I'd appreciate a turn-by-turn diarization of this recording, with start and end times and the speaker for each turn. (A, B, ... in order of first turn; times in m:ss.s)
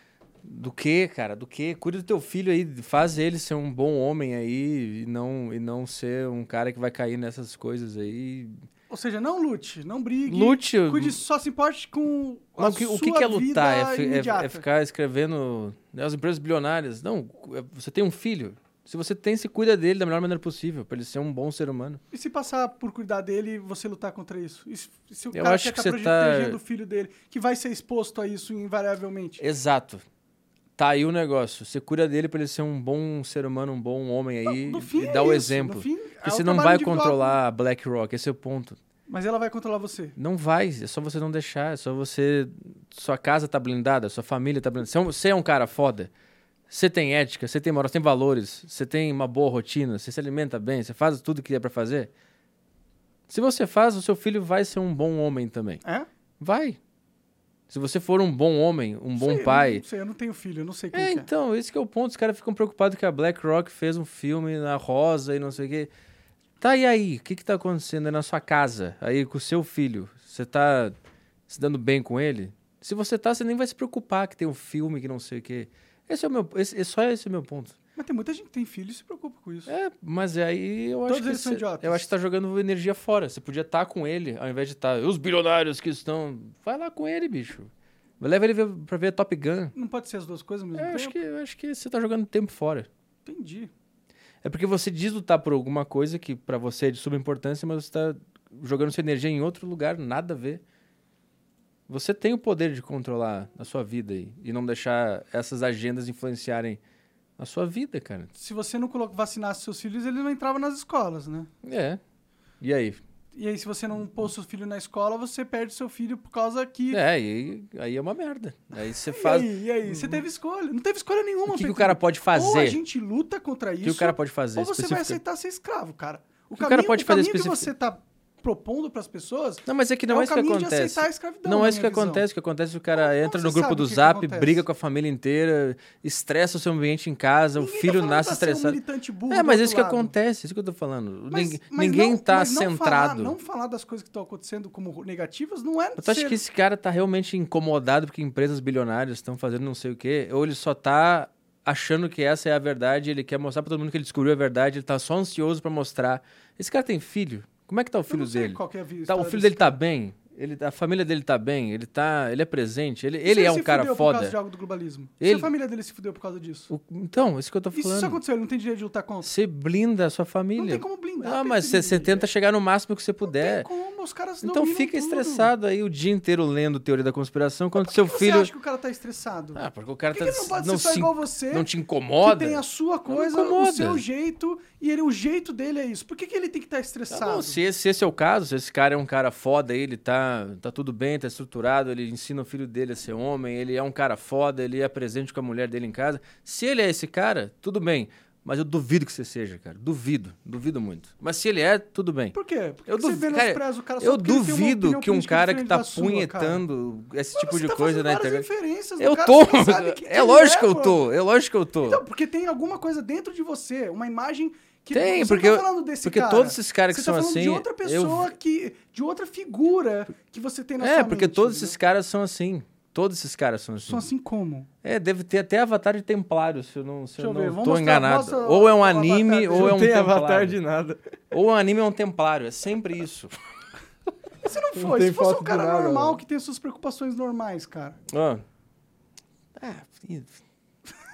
0:00.4-0:08.6 A
0:08.9-0:14.6 B
0:10.2-0:11.2 A
0:12.6-0:22.0 A
0:22.1-0:29.4 B
0:25.3-0:26.6 A
0:29.4-0:30.0 A
0:30.8-0:38.8 A
0:34.4-0:37.4 B
0:39.1-0:40.2 B
0:40.2-0:46.1 A
0:46.7-0:52.1 A
0:53.3-0:55.8 A
0:56.4-0:56.8 A
0:57.7-0:59.8 A
0:59.2-1:01.3 B
1:00.9-1:05.9 A
1:06.6-1:11.0 A
1:11.5-1:17.7 A
1:18.0-1:19.7 B
1:19.7-1:29.7 A
1:21.0-1:22.1 B
1:29.7-1:31.2 B
1:30.8-1:32.9 A
1:33.2-1:33.7 B
1:34.4-1:40.6 A
1:41.9-1:46.8 A
1:47.4-1:48.3 A
1:48.4-1:51.5 B
1:51.6-1:52.0 A
1:52.6-1:53.0 A
1:53.3-1:57.0 B
1:56.9-2:00.2 A
1:59.1-2:12.2 B
2:01.5-2:02.8 A
2:03.8-2:05.2 A
2:06.6-2:07.7 A
2:09.7-2:23.3 A
2:12.9-2:14.6 B
2:17.6-2:20.1 B
2:21.3-2:26.4 B
2:26.0-2:44.4 A
2:38.1-2:39.8 B
2:43.2-2:46.7 B
2:45.2-2:45.5 A
2:46.7-2:48.2 A
2:47.7-2:49.3 B
2:49.2-2:53.7 A
2:50.6-2:52.2 B
2:53.2-2:55.5 B
2:54.4-2:58.5 A
2:57.8-3:01.7 B
2:59.5-3:04.0 A
3:02.2-3:07.6 B
3:07.1-3:22.3 A
3:22.3-3:26.6 B
3:22.9-3:28.4 A
3:27.3-3:31.0 B
3:29.0-3:32.0 A
3:31.8-3:41.7 B
3:34.9-3:38.3 A
3:40.8-3:44.1 A
3:43.8-3:44.7 B
3:44.8-3:50.6 A
3:47.2-3:49.8 B
3:49.5-3:51.0 C
3:51.3-3:53.3 A
3:54.4-3:58.0 B
3:54.8-3:56.2 C
3:58.1-3:58.4 A
3:59.6-4:00.4 A